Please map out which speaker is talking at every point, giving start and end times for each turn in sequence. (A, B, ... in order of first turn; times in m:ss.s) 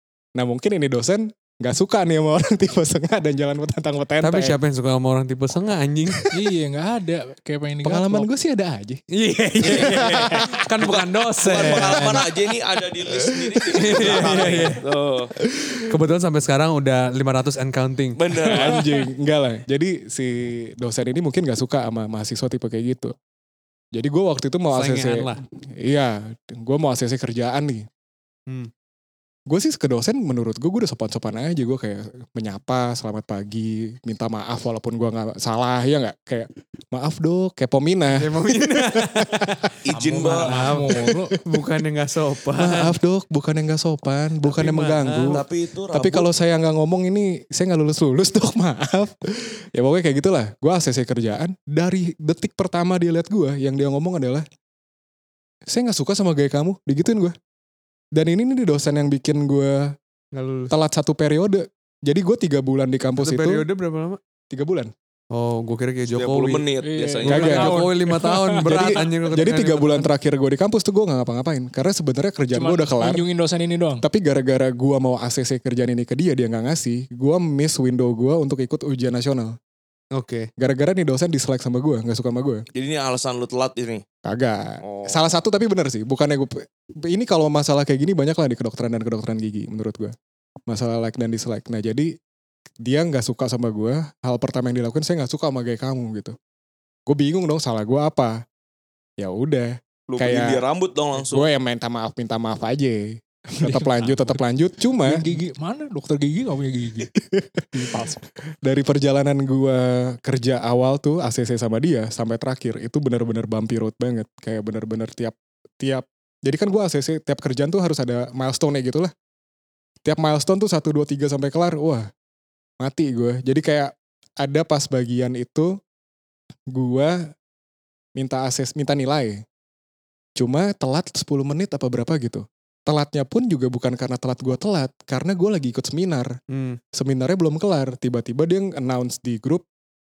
0:00.4-0:04.6 A
0:04.2-0:06.3 B
0:06.3-0:08.3 C
0:07.8-0:09.0 A
0:09.1-0:12.3 B
0:09.6-0:10.6 A
0:09.6-0:09.9 D
0:10.8-0:15.3 D
0:11.7-0:12.0 A
0:13.7-0:14.8 B
0:13.7-0:14.2 A
0:15.5-0:15.8 A
0:15.9-0:18.2 B
0:18.2-0:18.8 D
0:18.5-0:23.1 A
0:23.9-0:27.9 A
0:24.7-0:25.4 B
0:29.5-0:39.7 A
0:38.1-0:39.7 B
0:39.8-0:40.5 D
0:39.9-0:41.3 C
0:40.3-0:42.9 B
0:41.0-0:41.6 A
0:42.6-0:54.4 A
0:44.4-0:45.4 B
0:45.3-0:46.3 D
0:55.7-0:57.3 A
0:58.1-0:59.9 A
1:00.3-1:00.7 B
1:00.7-1:03.6 A
1:03.2-1:04.2 B
1:04.5-1:04.9 A
1:05.3-1:06.6 B
1:06.1-1:07.7 D
1:06.8-1:09.1 C
1:07.2-1:10.1 B
1:07.3-1:07.9 A
1:08.6-1:13.2 A
1:12.5-1:14.0 C
1:14.0-1:19.6 A
1:20.1-1:20.5 B
1:20.6-1:22.6 A
1:22.7-1:24.0 D
1:24.2-1:30.1 A
1:24.8-1:25.2 D
1:30.7-1:32.1 A
1:32.8-1:36.4 A
1:37.1-1:38.4 A
1:39.2-1:40.6 A
1:40.1-1:41.5 D
1:41.2-1:45.3 A
1:43.6-1:44.4 C
1:45.0-1:47.1 C
1:47.1-1:47.9 A
1:47.7-1:48.2 C
1:48.6-1:59.1 A
2:00.0-2:02.1 A
2:02.8-2:05.8 A
2:06.7-2:07.3 A
2:08.2-2:09.4 A
2:10.4-2:16.4 A
2:16.5-2:16.8 B
2:16.9-2:19.6 A